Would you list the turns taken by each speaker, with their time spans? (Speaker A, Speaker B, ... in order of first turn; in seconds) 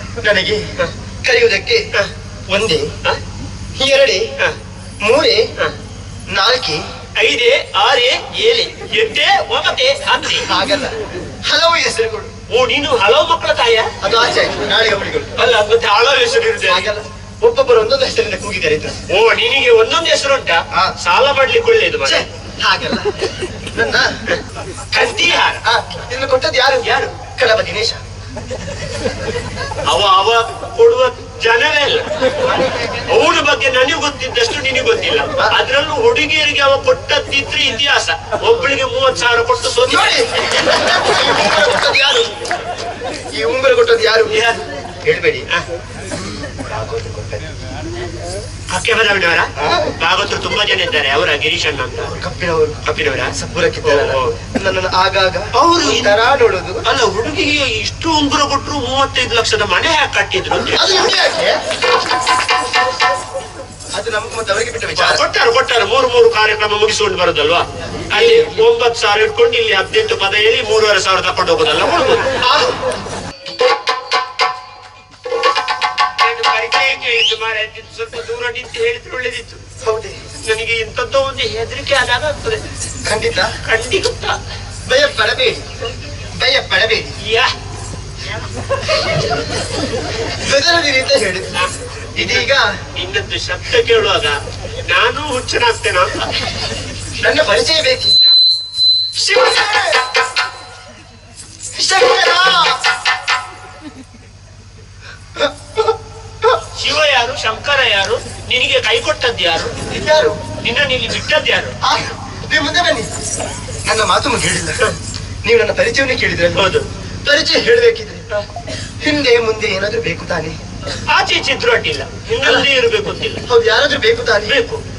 Speaker A: 0.2-0.7, 1.2-1.9, 2.5-2.9, 3.8-4.3, 5.0-5.5, 6.3-6.8, 10.3-12.3, 14.0-15.4, 16.6-19.0, 22.0-23.1, 23.7-24.2, 24.9-28.0, 32.5-32.9, 39.9-42.3, 43.3-44.4, 45.0-45.5, 46.5-47.5, 49.6-49.9, 52.0-52.8, 53.3-56.9, 60.7-61.6, 63.9-65.2, 68.1-68.6, 72.4-72.8, 79.8-80.2, 83.0-83.5, 84.8-85.7, 86.4-87.2, 90.2-91.5, 92.2-92.8, 97.2-98.2, 99.2-100.0, 101.7-102.8, 105.4-106.6, 109.9-110.4, 111.8-113.1, 113.8-114.8, 115.4-118.2, 119.0-120.5, 122.3-122.7, 123.4-124.5
Speaker B: 7.2-10.5, 12.5-13.9, 15.3-16.9, 19.1-22.3, 24.9-25.6, 26.8-27.1, 29.8-32.1, 33.0-40.3, 44.3-44.6, 48.7-52.1, 52.8-54.4, 55.5-56.1, 56.8-60.9, 65.0-72.3, 76.2-79.6, 80.4-82.6, 83.6-84.4, 87.2-87.5, 88.8-89.2, 91.5-96.5, 106.7-109.7, 110.6-111.8, 116.5-116.9, 121.0-123.5, 124.5-124.8